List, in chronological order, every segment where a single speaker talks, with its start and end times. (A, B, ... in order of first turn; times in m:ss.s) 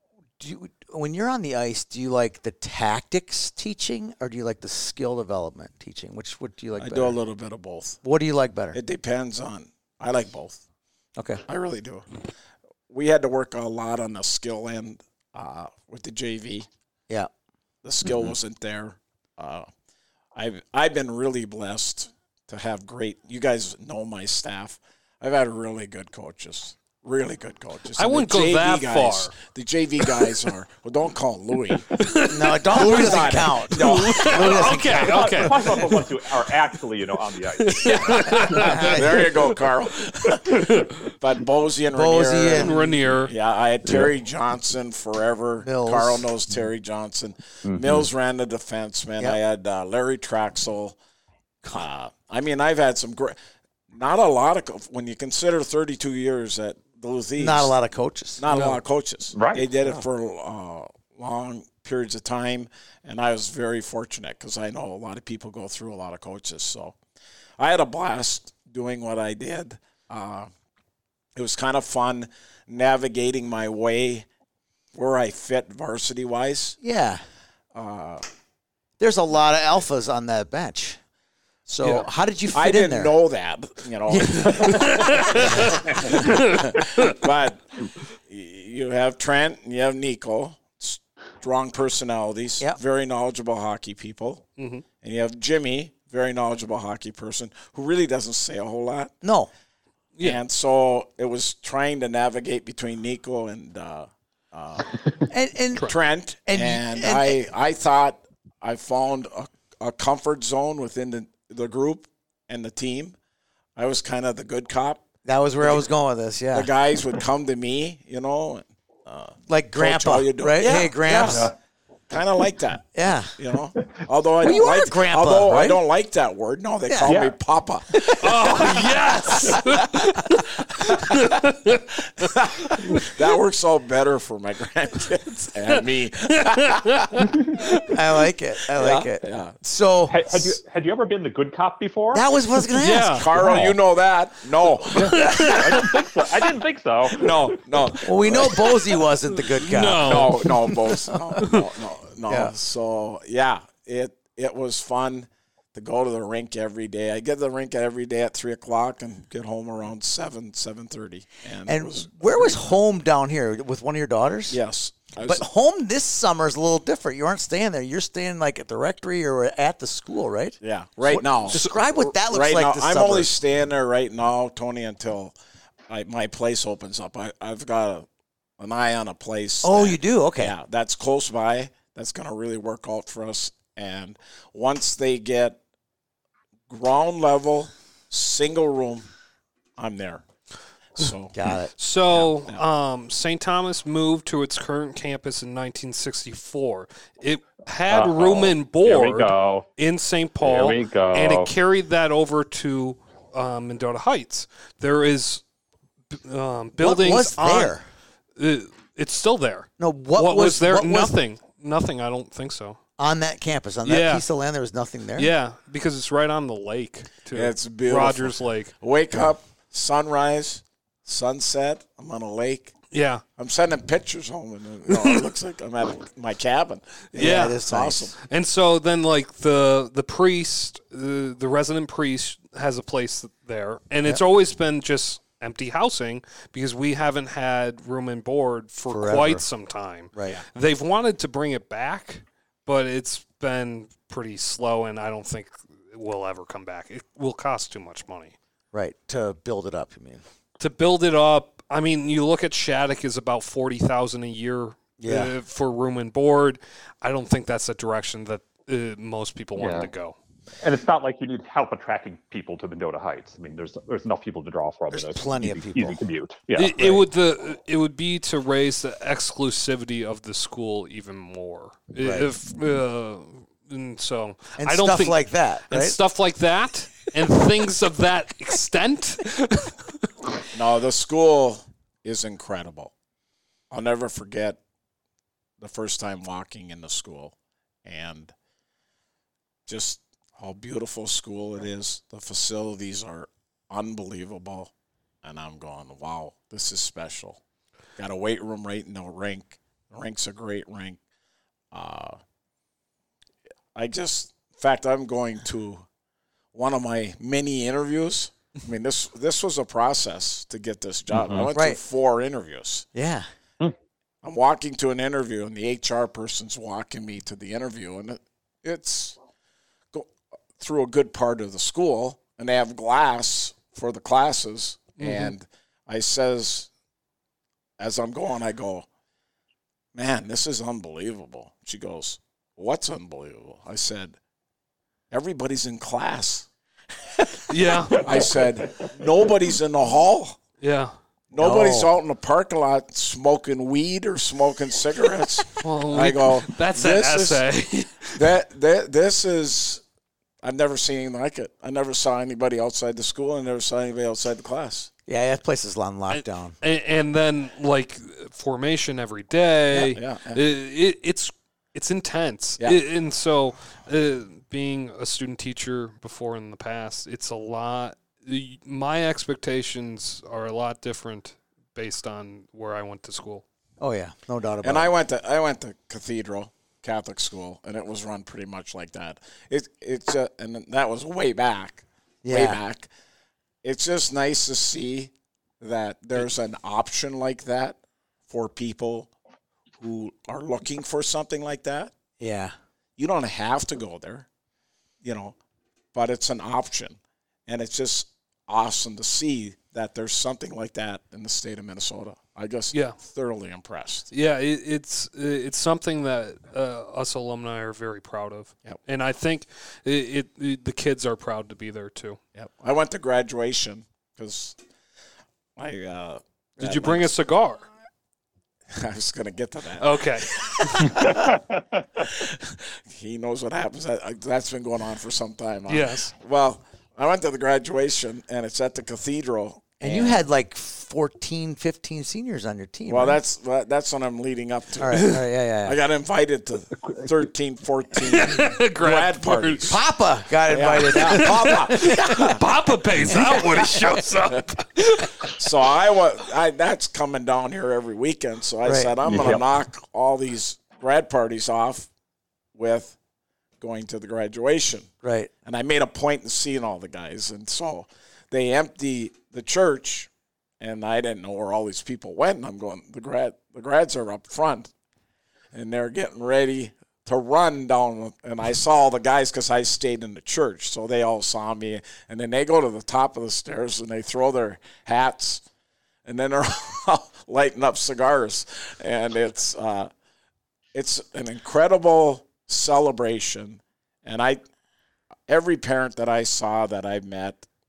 0:00.4-0:07.2 A
0:06.8-0:08.0 B
0:08.0-0:08.8 A
0:08.7-0:10.6 B
0:11.2-0:11.4 A
0:11.5-0:12.1 B
0:12.9-0:16.7 B
0:17.8-0:19.7 B
0:20.4-0:31.9 B
0:28.0-0:29.4 C
0:30.0-0:30.4 C
0:31.9-0:35.9 C
0:32.2-0:35.8 A
0:32.7-0:34.6 B
0:35.0-0:38.7 D
0:37.6-0:39.6 C
0:38.4-0:51.0 B
0:38.5-0:39.3 A
0:40.5-0:40.9 C
0:41.9-0:43.0 A
0:42.5-0:43.3 C
0:45.6-0:46.3 A
0:47.6-0:48.1 D
0:51.7-0:53.4 B
0:53.9-0:57.7 B
0:57.4-0:58.4 A
0:58.4-1:07.0 B
0:58.5-0:58.8 C
0:59.3-0:59.7 D
1:07.6-1:10.5 B
1:11.4-1:14.3 B
1:14.9-1:16.8 B
1:16.8-1:17.2 A
1:17.7-1:18.2 B
1:19.0-1:21.0 A
1:21.7-1:23.2 A
1:22.5-1:34.5 B
1:24.1-1:26.2 A
1:24.6-1:25.7 C
1:26.2-1:26.7 C
1:34.6-1:34.8 C
1:35.0-1:39.1 B
1:39.2-1:39.5 A
1:40.2-1:40.4 C
1:40.2-1:45.0 B
1:45.3-1:46.0 A
1:45.8-1:53.2 B
1:46.5-1:47.4 A
1:53.8-1:55.0 B
1:55.2-1:56.7 A
1:55.6-1:55.9 B
1:56.5-2:01.5 B
1:59.5-2:01.5 A
2:00.6-2:01.5 D
2:02.1-2:02.8 B
2:03.0-2:03.3 A
2:03.4-2:08.9 B
2:04.4-2:05.8 A
2:06.9-2:07.2 A
2:07.0-2:07.4 D
2:08.1-2:12.2 C
2:08.4-2:09.6 A
2:10.6-2:17.3 B
2:17.9-2:20.6 A
2:18.8-2:19.6 B
2:20.1-2:22.3 D
2:22.1-2:23.6 A
2:22.8-2:23.6 C
2:23.1-2:25.9 B
2:23.4-2:23.7 D
2:25.0-2:27.9 D
2:25.0-2:25.9 C
2:27.1-2:29.0 B
2:28.0-2:31.4 A
2:29.4-2:30.8 C
2:30.0-2:42.7 B
2:31.4-2:31.7 C
2:32.3-2:32.5 A
2:41.7-2:44.6 A
2:44.5-2:45.4 B
2:45.2-2:53.3 A
2:50.6-2:55.3 B
2:55.9-2:58.1 B
2:58.6-3:05.6 B
2:59.6-3:00.6 A
3:06.7-3:09.1 B
3:09.8-3:10.2 B
3:11.0-3:11.4 B
3:11.3-3:11.7 A
3:11.8-3:25.4 C
3:12.1-3:12.6 B
3:17.9-3:19.7 D
3:20.4-3:21.5 D
3:26.1-3:27.8 C
3:26.8-3:27.8 A
3:28.4-3:32.8 C
3:29.8-3:31.2 A
3:33.0-3:35.3 A
3:33.8-3:34.2 C
3:35.2-3:38.8 C
3:37.3-3:42.7 B
3:42.9-3:43.2 C
3:43.4-3:48.2 B
3:44.9-3:45.3 C
3:47.2-3:48.1 A
3:47.2-3:47.6 C
3:48.2-4:08.4 C
3:58.9-3:59.4 A
4:00.2-4:00.4 A
4:08.7-4:10.2 A
4:10.6-4:20.2 C
4:15.0-4:15.3 A
4:19.6-4:19.9 D
4:20.6-4:27.0 D
4:24.9-4:26.0 A
4:26.6-4:39.9 C
4:32.0-4:32.3 A
4:34.6-4:36.0 A
4:40.5-4:42.9 B
4:43.7-4:44.6 B
4:45.6-4:48.3 B
4:49.7-4:54.7 B
4:55.2-4:57.4 B
4:58.0-5:01.0 B
5:01.7-5:02.2 B
5:03.8-5:05.9 B
5:06.5-5:12.9 B
5:11.1-5:11.5 D
5:11.5-5:11.8 A
5:13.0-5:13.3 A
5:14.2-5:19.2 B
5:19.9-5:26.7 B
5:25.0-5:25.3 C
5:27.8-5:28.9 B
5:29.9-5:34.2 B
5:35.1-5:36.5 B
5:37.1-5:40.4 B
5:37.5-5:38.1 C
5:40.6-5:40.9 C
5:41.3-5:47.4 B
5:41.4-5:41.9 A
5:45.5-5:48.3 C
5:48.2-5:49.8 B
5:50.4-5:54.9 B
5:55.1-5:56.6 A
5:56.1-6:13.4 C
5:59.7-6:00.4 B
6:13.8-6:14.9 A
6:14.6-6:22.9 B
6:22.2-6:22.6 A
6:23.6-6:29.1 B
6:29.8-6:31.9 B
6:32.2-6:32.5 A
6:33.0-6:34.3 B
6:35.0-6:35.4 B
6:35.9-6:44.1 B
6:42.7-6:43.0 C
6:44.1-6:52.2 C
6:52.4-6:54.6 B
6:55.6-6:57.1 B
6:56.6-6:57.7 C
6:58.7-7:01.4 B
6:59.8-7:01.1 C
7:01.1-7:01.4 D
7:02.0-7:10.2 B
7:05.7-7:06.1 C
7:09.8-7:13.2 A
7:12.9-7:19.8 B
7:14.8-7:15.8 A
7:18.0-7:19.8 C
7:19.7-7:22.1 A
7:20.5-7:22.4 B
7:20.8-7:25.3 C
7:23.0-7:24.0 A
7:24.2-7:24.6 B
7:25.2-7:31.9 B
7:28.6-7:29.4 A
7:29.0-7:29.4 D
7:32.6-7:33.0 B
7:33.6-7:34.9 B
7:35.0-7:35.3 A
7:35.4-7:40.1 B
7:40.6-7:44.7 B
7:45.5-7:55.4 B
7:56.1-7:59.9 B
8:00.7-8:04.4 B
8:05.3-8:07.5 B